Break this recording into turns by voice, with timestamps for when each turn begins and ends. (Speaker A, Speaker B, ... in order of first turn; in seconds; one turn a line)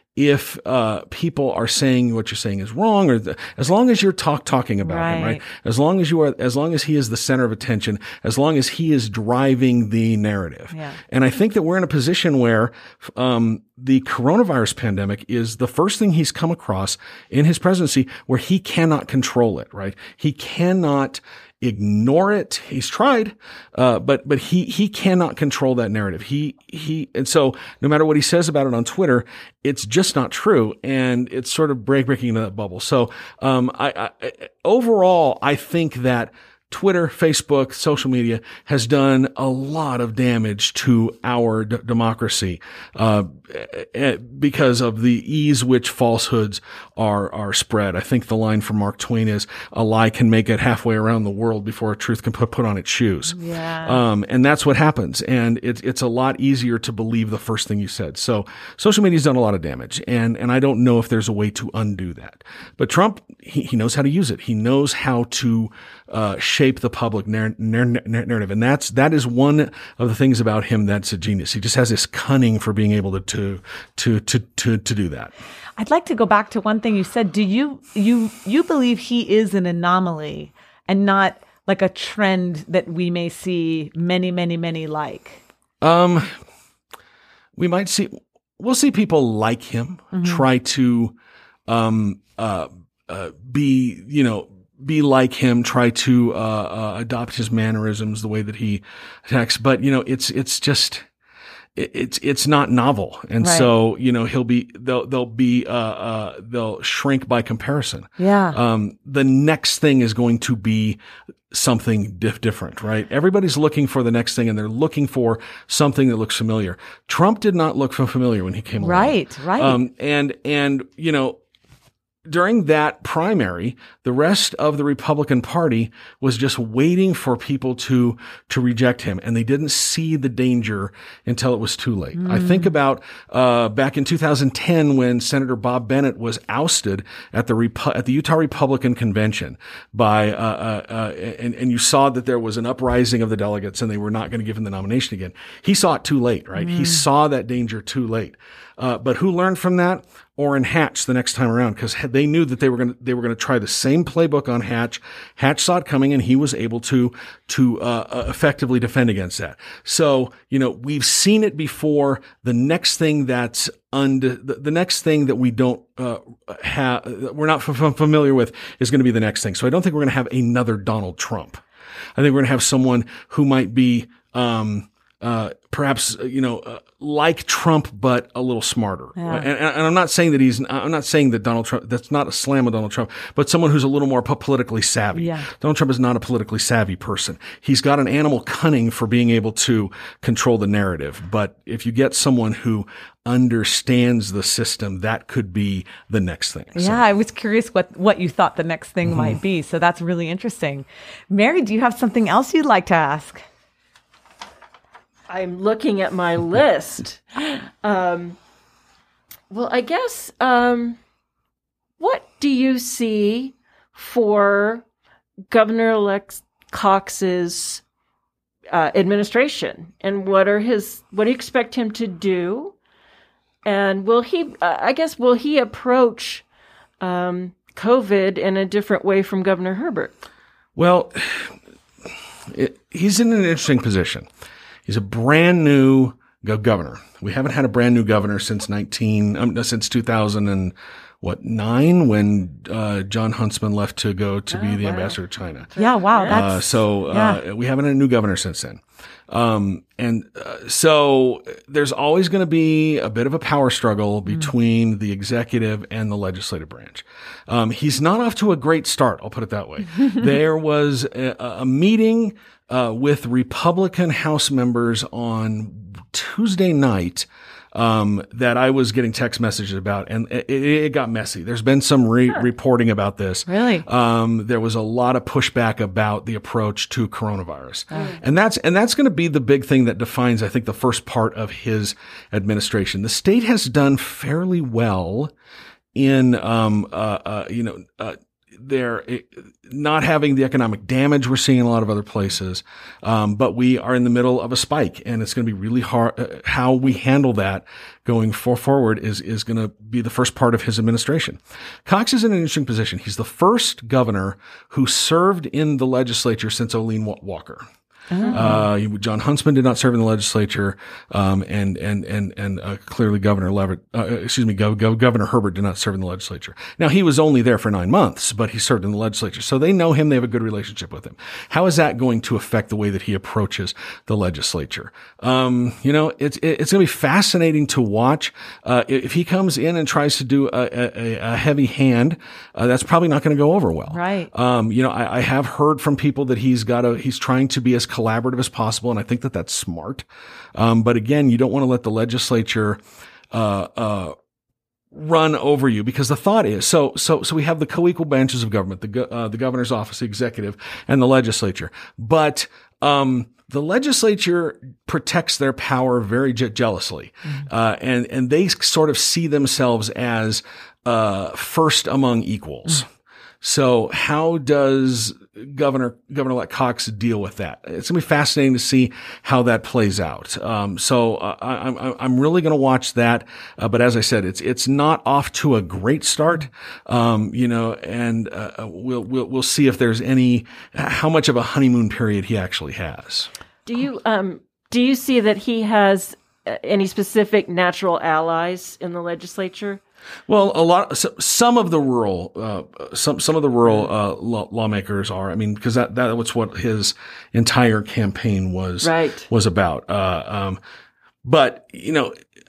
Speaker A: 0.2-75.3
Speaker B: 4.8-5.4
Speaker B: 10.7-11.0
Speaker B: 53.3-54.0
Speaker B: 75.8-85.4
Speaker A: 85.8-86.4
Speaker A: 87.6-91.1
Speaker B: 90.1-90.5
Speaker A: 91.7-101.1
Speaker A: 101.8-111.0
Speaker B: 103.4-103.7
Speaker B: 108.2-108.6
Speaker A: 111.5-121.4
Speaker B: 118.8-119.8
Speaker A: 122.3-171.6
Speaker B: 132.2-132.7
Speaker B: 146.6-147.0
Speaker A: 172.2-197.0
Speaker B: 179.2-179.5
Speaker B: 185.1-185.5
Speaker B: 196.7-203.4
Speaker A: 199.0-199.4
Speaker C: 205.3-208.4
Speaker C: 209.5-211.0
Speaker C: 212.0-214.8
Speaker C: 215.5-217.8
Speaker C: 218.7-222.8
Speaker C: 223.6-226.4
Speaker C: 227.0-230.1
Speaker A: 230.8-231.6
Speaker A: 232.5-234.3
Speaker A: 234.8-245.7
Speaker C: 244.5-245.2
Speaker C: 245.7-246.4
Speaker B: 245.8-247.4
Speaker A: 246.3-285.3
Speaker B: 273.5-273.9
Speaker C: 277.9-278.2
Speaker A: 285.9-307.6
Speaker B: 308.1-308.7
Speaker A: 308.3-342.8
Speaker B: 333.9-334.3
Speaker A: 343.3-344.1
Speaker A: 344.9-362.9
Speaker A: 363.4-383.3
Speaker C: 383.6-389.8
Speaker A: 390.3-400.6
Speaker C: 398.8-399.3
Speaker A: 401.2-402.1